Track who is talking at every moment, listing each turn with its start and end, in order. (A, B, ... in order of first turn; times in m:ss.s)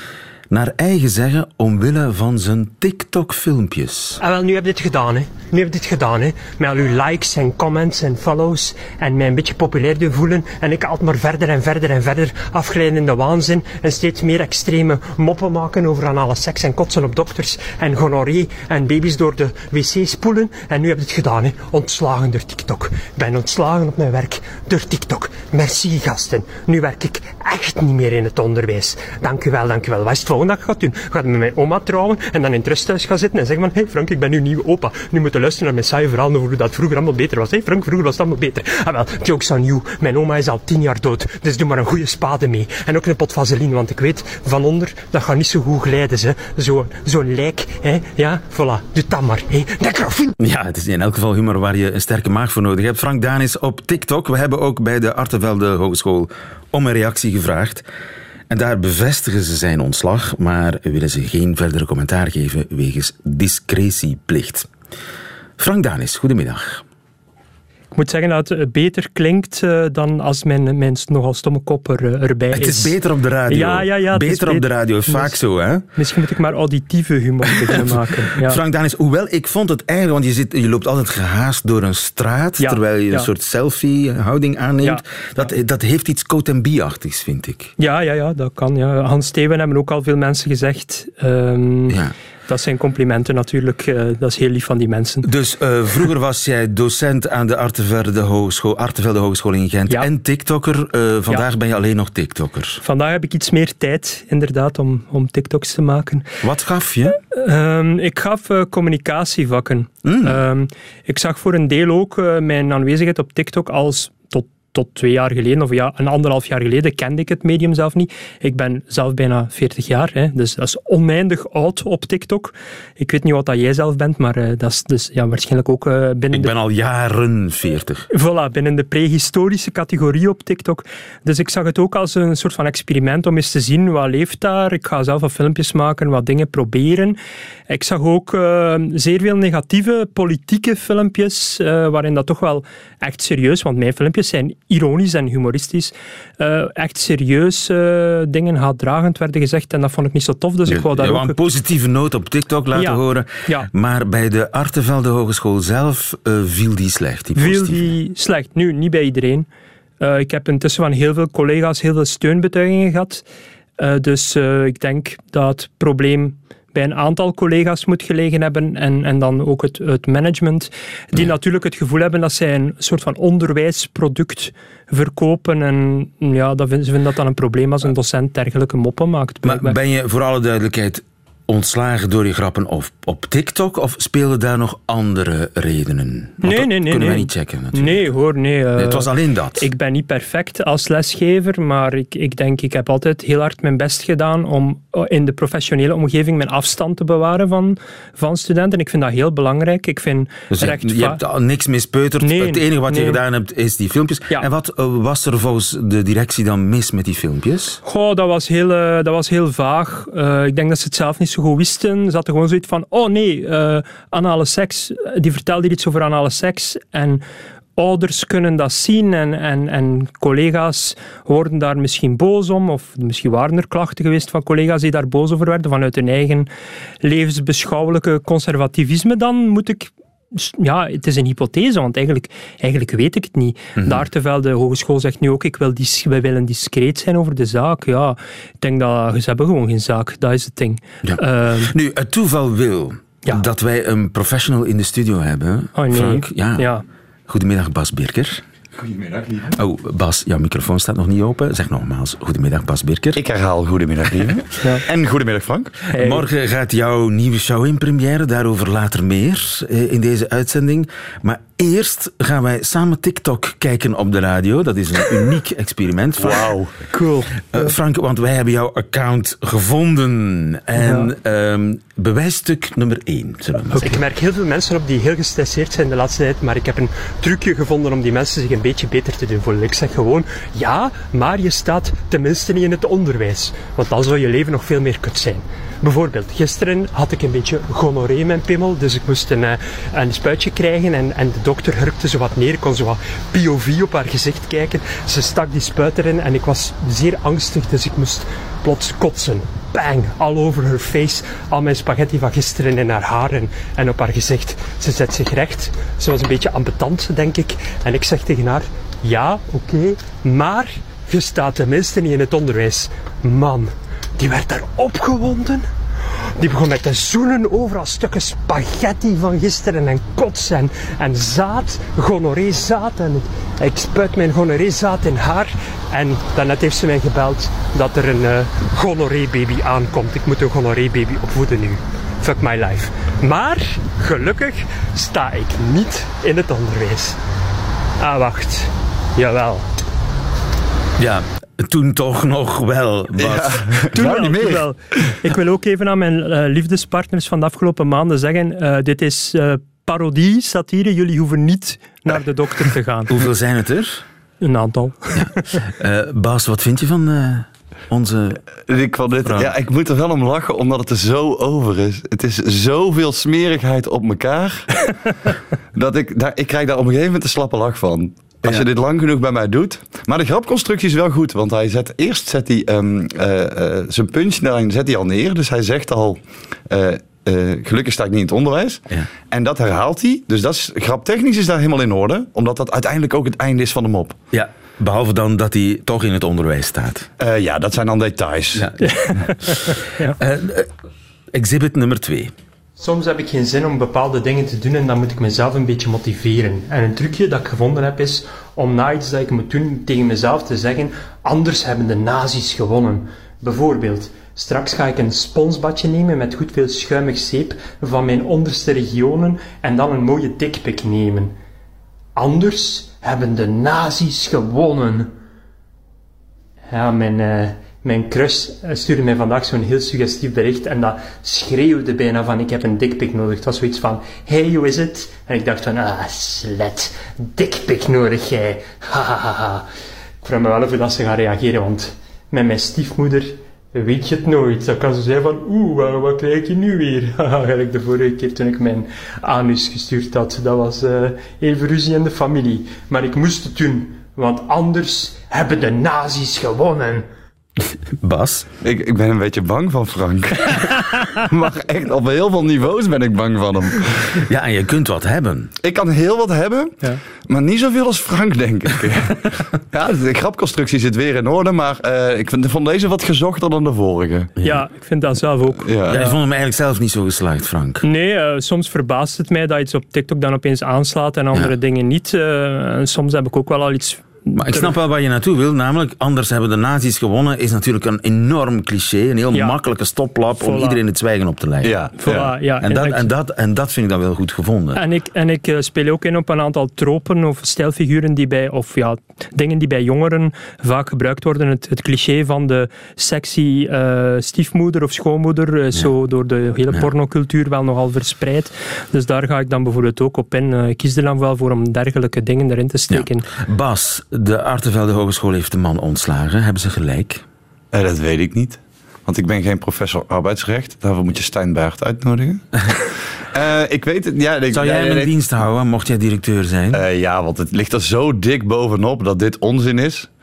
0:00.5-0:04.2 A
0:04.2-0:50.4 B
0:50.4-0:57.8 A
0:58.5-1:04.7 A
1:05.6-1:06.8 A
1:07.9-1:13.0 B
1:12.5-1:15.8 A
1:13.5-1:15.4 B
1:15.9-1:18.6 B
1:17.5-1:27.7 A
1:22.6-1:23.3 B
1:24.8-1:25.5 B
1:27.8-1:32.0 B
1:31.9-1:32.1 A
1:32.5-1:35.2 B
1:35.2-1:42.8 A
1:42.8-1:46.3 B
1:46.4-1:47.2 A
1:47.3-2:06.5 B
1:50.0-1:50.4 A
2:06.3-2:08.1 A
2:08.1-2:17.2 B
2:17.7-2:31.4 B
2:30.7-2:37.9 A
2:32.7-2:33.7 B
2:37.4-2:39.5 B
2:40.0-2:43.2 B
2:43.8-2:59.8 B
2:59.4-3:08.1 A
3:06.4-3:21.2 B
3:08.8-3:09.7 A
3:20.5-3:27.8 A
3:22.2-3:23.2 B
3:27.8-3:37.2 B
3:37.8-3:46.5 B
3:47.0-4:01.7 B
3:53.8-3:54.1 A
4:01.0-4:06.7 A
4:05.8-4:06.8 B
4:07.3-4:08.4 A
4:08.7-4:09.5 C
4:09.5-4:13.2 A
4:13.2-4:15.7 C
4:15.9-4:16.2 B
4:15.9-4:26.5 A
4:26.2-4:26.7 C
4:26.9-4:27.7 B
4:27.5-4:34.0 A
4:30.8-4:31.1 B
4:33.7-5:15.7 B
5:16.4-5:37.2 B
5:38.0-5:39.6 B
5:41.0-5:43.8 A
5:43.2-5:45.1 C
5:43.9-5:53.1 B
5:53.1-5:54.0 A
5:54.4-5:55.6 B
5:55.1-5:58.4 A
5:58.7-6:04.7 C
5:59.2-5:59.5 A
6:05.7-6:24.2 C
6:24.3-6:27.1 A
6:27.2-6:28.7 C
6:28.5-6:30.7 A
6:28.8-6:30.2 B
6:31.3-6:32.3 A
6:32.8-6:51.3 B
6:52.2-6:55.1 B
6:56.7-7:09.6 B
7:10.2-7:27.0 B
7:28.0-7:28.5 A
7:28.6-7:34.2 C
7:34.2-7:35.5 A
7:35.6-7:44.3 C
7:44.4-7:44.6 A
7:44.4-7:46.2 B
7:45.6-7:46.0 C
7:45.9-7:47.8 A
7:47.8-7:54.7 B
7:54.3-8:04.8 A
7:59.3-7:59.6 B
8:00.4-8:00.8 B
8:01.6-8:02.3 C
8:02.0-8:03.1 B
8:04.7-8:23.3 B
8:22.9-8:27.2 A
8:27.7-8:35.1 C
8:34.5-8:36.8 A
8:36.7-8:40.1 C